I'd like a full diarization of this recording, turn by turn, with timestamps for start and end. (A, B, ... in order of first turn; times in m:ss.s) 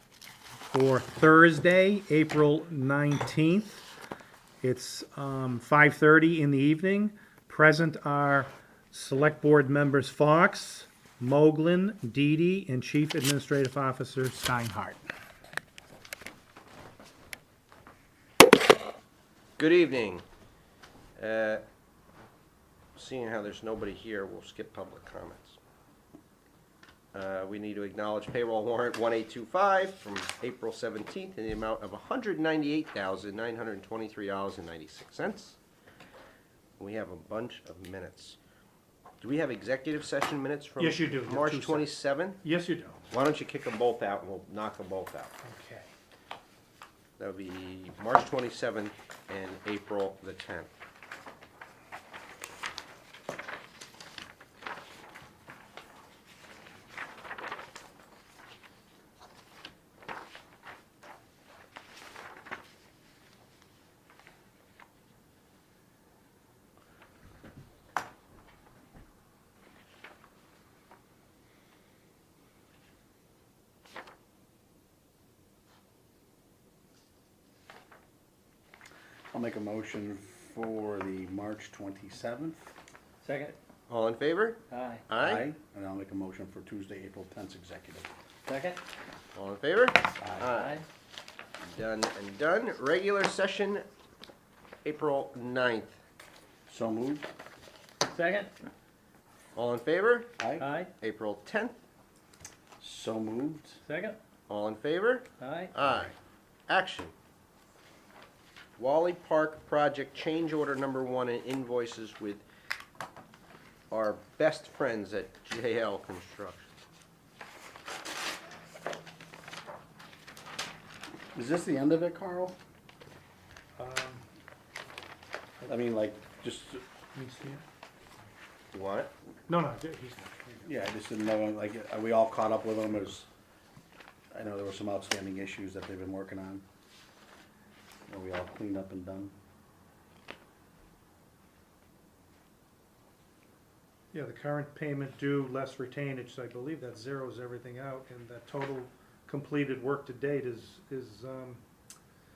0:00.7-0:03.9 A
0:04.6-0:15.1 A
0:19.6-0:20.2 B
0:21.2-0:21.6 B
0:23.0-0:25.6 B
0:27.1-0:35.6 B
0:36.8-0:38.4 B
0:39.2-0:42.4 B
0:40.8-0:43.1 A
0:43.1-0:45.3 B
0:45.4-0:45.9 A
0:47.2-0:50.7 B
1:19.3-1:22.7 C
1:23.2-1:23.6 D
1:23.9-1:25.5 B
1:24.7-1:25.0 D
1:25.2-1:28.1 C
1:28.5-1:28.8 D
1:29.4-1:30.8 B
1:30.2-1:30.5 C
1:30.5-1:30.8 D
1:31.7-1:33.8 B
1:34.8-1:36.0 B
1:36.7-1:37.3 C
1:38.0-1:38.5 D
1:39.6-1:40.4 B
1:40.4-1:40.7 C
1:40.6-1:40.9 D
1:41.0-1:41.8 B
1:42.8-1:43.8 C
1:43.8-1:44.2 D
1:44.5-1:46.1 B
1:45.4-1:45.7 D
1:46.7-1:47.1 B
1:48.8-1:52.4 B
1:53.9-1:56.7 B
2:01.3-2:02.6 C
2:03.8-2:04.3 A
2:05.7-2:06.8 C
2:07.2-2:07.6 A
2:08.7-2:09.1 B
2:09.5-2:10.7 A
2:10.6-2:13.3 C
2:14.3-2:16.6 C
2:18.1-2:19.3 C
2:24.1-2:31.6 A